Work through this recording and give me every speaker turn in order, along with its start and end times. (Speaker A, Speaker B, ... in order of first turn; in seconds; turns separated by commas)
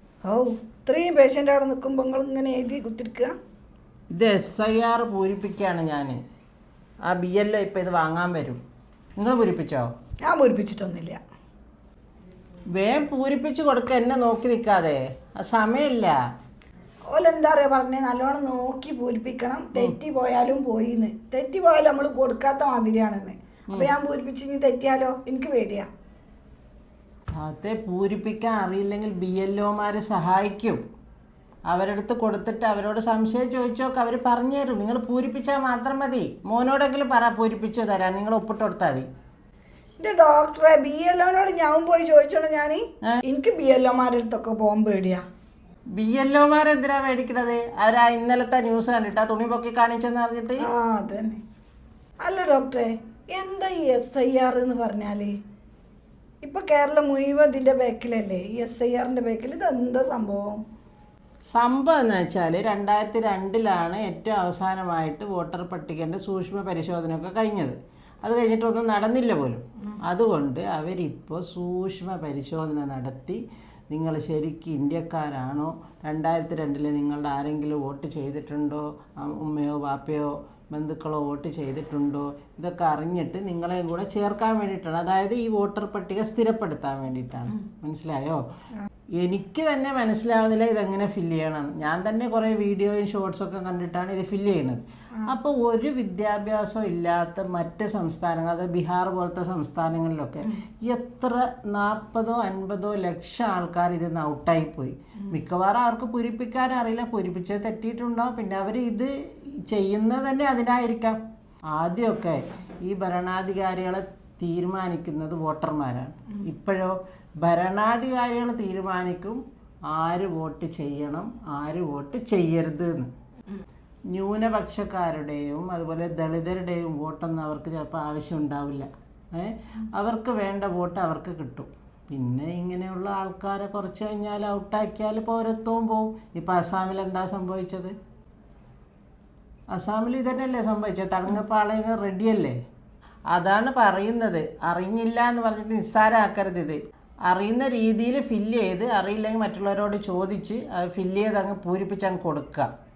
Speaker A: 0.2-3.3, Speaker B: 4.1-6.2, Speaker B: 7.1-8.6, Speaker B: 9.2-9.9, Speaker A: 10.3-11.2, Speaker B: 12.7-16.2, Speaker A: 17.1-25.9, Speaker B: 27.3-30.8, Speaker B: 31.7-39.1, Speaker A: 40.0-45.2, Speaker B: 46.0-50.7, Speaker A: 50.6-51.4, Speaker A: 52.2-55.4, Speaker A: 56.4-60.6, Speaker B: 61.5-88.4, Speaker B: 89.2-111.2, Speaker B: 111.7-123.1, Speaker B: 124.1-137.9, Speaker B: 139.7-142.6, Speaker B: 143.3-152.7